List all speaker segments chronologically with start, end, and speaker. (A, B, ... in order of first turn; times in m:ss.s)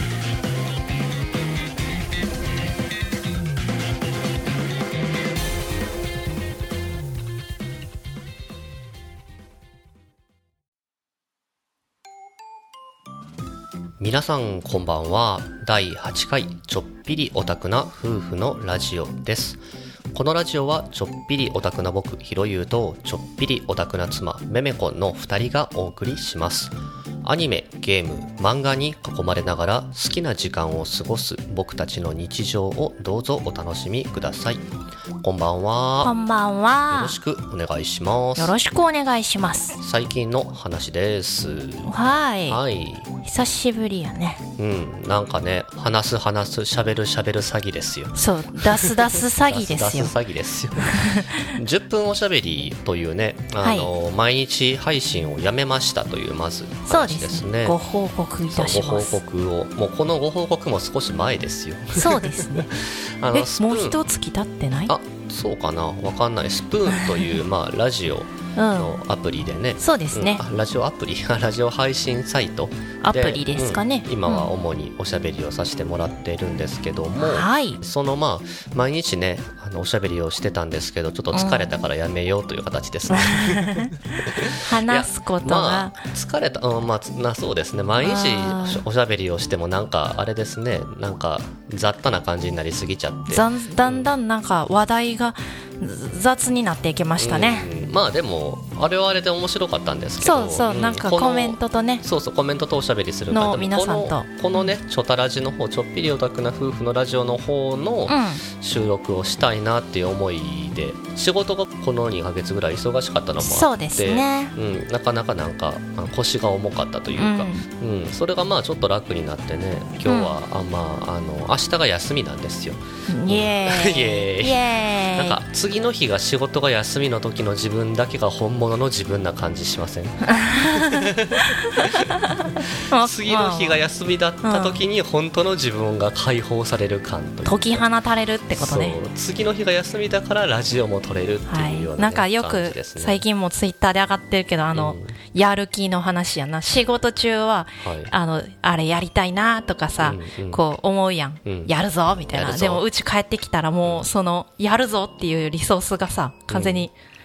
0:14.0-0:19.6 A
0:20.1-0:34.6 A
0:35.2-0:36.1 A
0:36.0-0:37.2 B
0:36.9-0:38.5 A
0:38.4-0:39.8 B
0:39.8-0:41.9 A
0:41.8-0:42.6 B
0:42.5-0:43.1 A
0:43.2-0:44.4 B
0:44.6-0:57.8 A
0:48.1-0:50.1 B
0:50.8-0:51.6 B
0:53.6-0:53.9 B
0:56.9-0:59.2 B
0:58.5-1:04.0 A
1:01.9-1:02.7 B
1:03.3-1:04.9 B
1:04.9-1:34.1 A
1:06.9-1:07.4 B
1:08.6-1:09.0 B
1:09.8-1:10.4 B
1:13.0-1:14.5 B
1:17.2-1:17.8 B
1:21.3-1:21.8 B
1:23.1-1:26.0 B
1:28.0-1:28.8 B
1:33.3-1:37.7 B
1:37.2-2:17.8 A
1:40.2-1:42.0 B
1:43.3-1:44.7 B
1:48.1-1:48.4 B
1:53.4-1:54.5 B
1:57.2-1:57.6 B
2:00.0-2:00.3 B
2:03.1-2:05.4 B
2:10.3-2:13.8 B
2:14.4-2:14.8 B
2:17.4-2:19.0 B
2:18.5-2:23.2 A
2:21.5-2:36.9 B
2:24.7-2:25.2 A
2:27.8-2:28.1 A
2:30.0-2:30.6 A
2:31.4-2:32.8 A
2:33.8-2:34.1 A
2:36.5-2:36.9 A